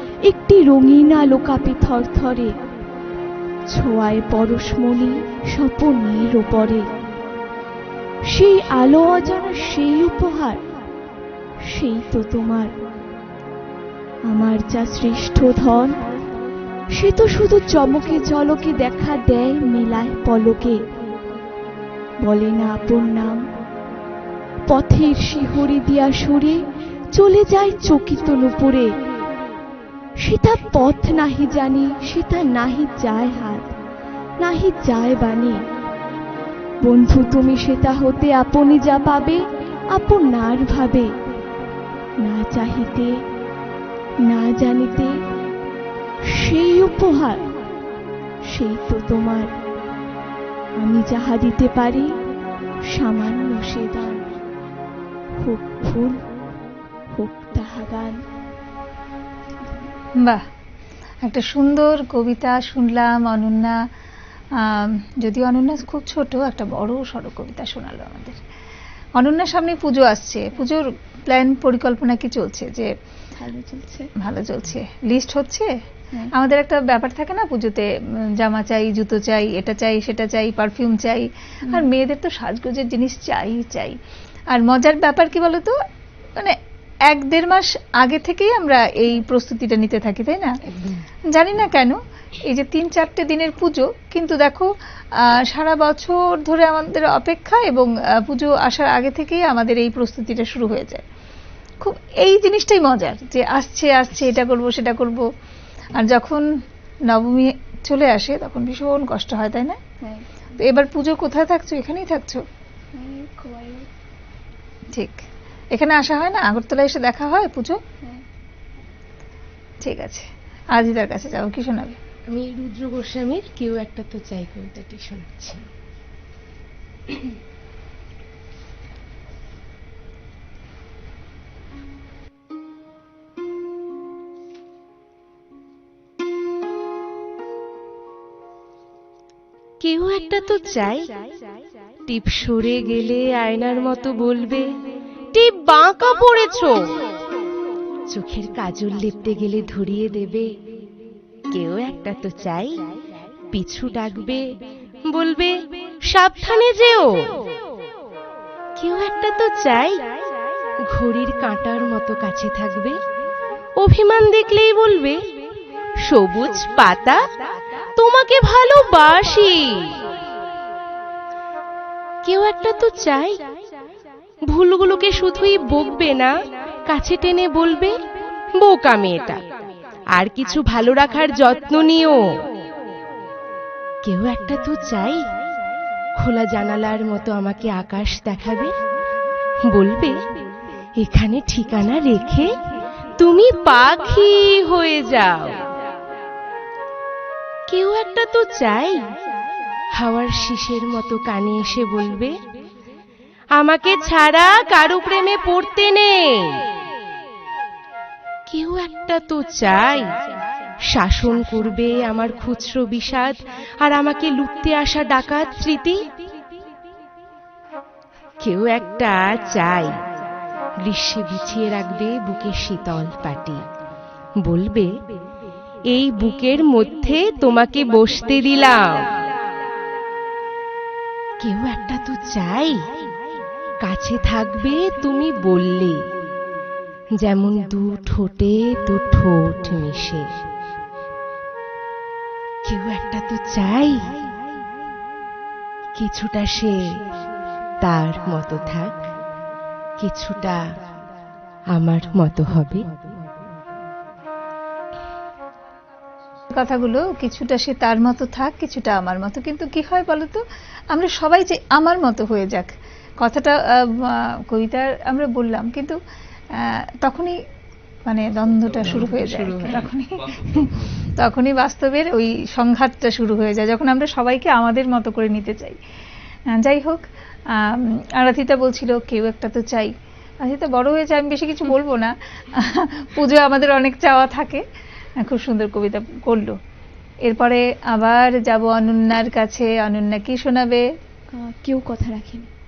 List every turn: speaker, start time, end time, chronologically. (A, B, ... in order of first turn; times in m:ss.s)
0:00.2-0:02.6 A
0:03.7-0:06.9 A
0:08.3-0:10.6 A
0:11.6-0:12.8 A
0:14.3-0:16.0 A
0:16.9-0:20.9 A
0:22.2-0:23.4 A
0:24.7-0:28.9 A
0:30.2-0:33.7 A
0:34.4-0:35.6 A
0:36.8-0:41.2 A
0:42.2-0:43.2 A
0:44.2-0:45.2 A
0:46.2-0:47.5 A
0:48.4-0:49.5 A
0:50.8-0:52.2 A
0:52.8-0:54.3 A
0:55.4-0:56.2 A
0:57.1-0:58.2 A
1:01.2-1:03.8 B
1:04.6-1:08.4 B
1:09.2-1:12.9 B
1:13.4-1:14.1 A
1:14.2-1:15.8 B
1:16.3-1:24.0 B
1:24.5-1:25.8 B
1:26.4-1:30.6 B
1:31.3-1:41.0 B
1:41.8-1:45.3 B
1:46.0-1:46.5 B
1:47.1-1:49.8 B
1:50.6-1:52.4 B
1:52.9-1:53.9 A
1:54.9-1:55.2 B
1:55.7-1:57.8 B
1:59.8-2:02.0 B
2:02.3-2:05.7 C
2:19.8-2:21.4 C
2:22.1-2:24.7 C
2:25.3-2:26.9 C
2:28.1-2:30.5 C
2:31.5-2:32.8 C
2:33.5-2:34.4 C
2:35.1-2:37.3 C
2:38.8-2:40.1 C
2:40.9-2:43.0 C
2:43.8-2:45.2 C
2:46.1-2:47.2 C
2:48.0-2:50.0 C
2:52.2-2:53.4 C
2:54.5-2:56.3 C
2:56.9-2:58.0 C
2:58.6-2:59.4 C
3:00.2-3:02.2 C
3:04.0-3:05.3 C
3:06.2-3:08.8 C
3:09.7-3:10.2 C
3:11.0-3:12.5 C
3:13.2-3:15.6 C
3:17.7-3:19.1 C
3:20.0-3:22.4 C
3:23.6-3:26.6 C
3:28.5-3:30.1 C
3:30.8-3:36.0 C
3:38.4-3:40.0 C
3:40.8-3:43.6 C
3:44.4-3:44.9 C
3:45.9-3:49.0 C
3:51.4-3:52.9 C
3:53.8-3:56.1 C
3:57.2-4:00.3 C
4:02.6-4:04.2 C
4:06.0-4:07.0 C
4:07.8-4:09.0 C
4:10.0-4:10.7 C
4:11.7-4:13.1 C
4:16.5-4:26.0 B
4:26.5-4:27.4 B
4:28.1-4:35.8 B
4:28.8-4:29.9 C
4:36.5-4:44.6 B
4:45.2-4:46.6 B
4:47.2-4:50.9 B
4:51.3-4:52.5 A